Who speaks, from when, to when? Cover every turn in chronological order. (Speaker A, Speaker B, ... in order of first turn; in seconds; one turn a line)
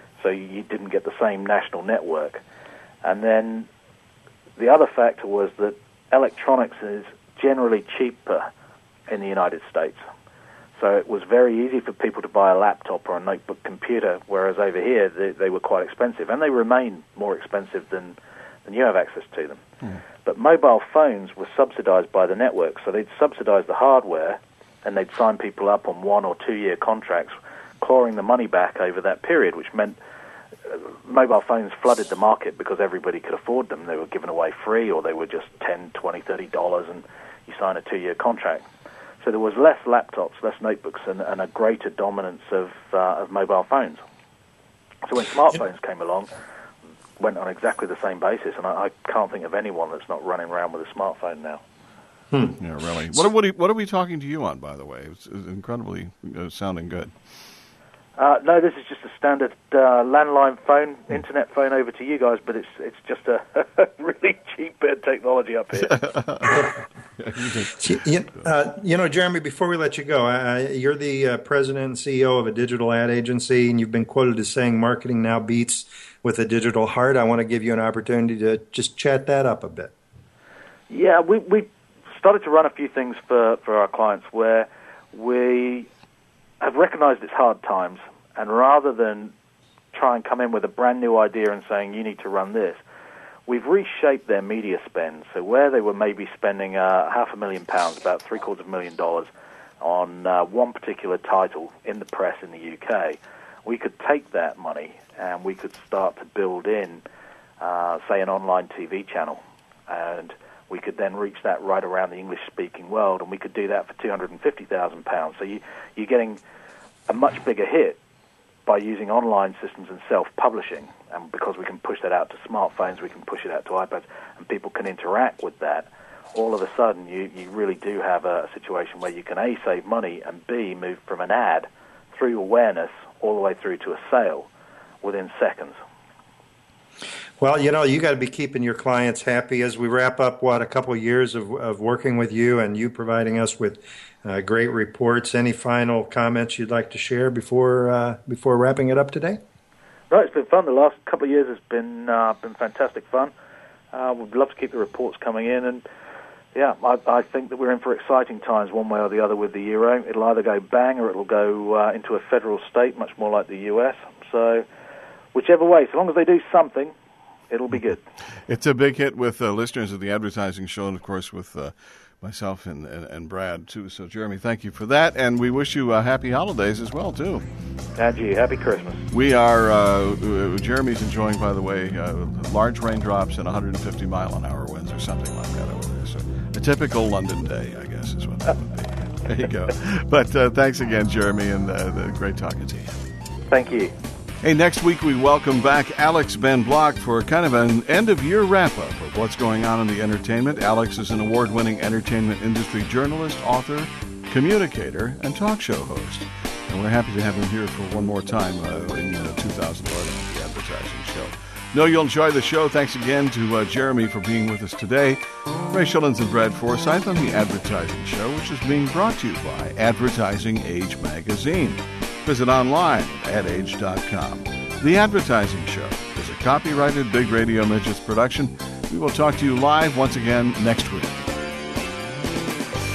Speaker A: 0.2-2.4
Speaker A: 3.0-3.7
Speaker A: 4.6-8.5
Speaker A: 9.1-10.0
Speaker A: 10.8-19.6
Speaker A: 20.2-30.0
Speaker A: 30.7-38.6
Speaker A: 39.2-44.0
Speaker A: 45.0-46.3
Speaker A: 47.2-51.6
Speaker B: 52.3-53.3
Speaker C: 52.6-57.1
Speaker A: 58.2-66.1
Speaker C: 65.9-66.7
Speaker C: 67.2-67.9
Speaker B: 67.7-79.9
Speaker A: 80.9-85.9
Speaker A: 86.6-89.3
Speaker A: 89.9-92.8
Speaker A: 93.5-99.3
Speaker A: 99.8-107.0
Speaker A: 107.6-116.4
Speaker A: 117.1-118.0
Speaker A: 118.7-134.5
Speaker A: 135.0-135.8
Speaker B: 137.4-149.4
Speaker A: 150.1-153.3
Speaker A: 153.9-155.8
Speaker A: 156.5-164.6
Speaker A: 165.3-166.9
Speaker A: 167.5-168.0
Speaker C: 168.5-177.5
Speaker A: 178.0-179.0
Speaker C: 179.1-192.9
Speaker A: 193.5-193.9
Speaker C: 194.4-231.2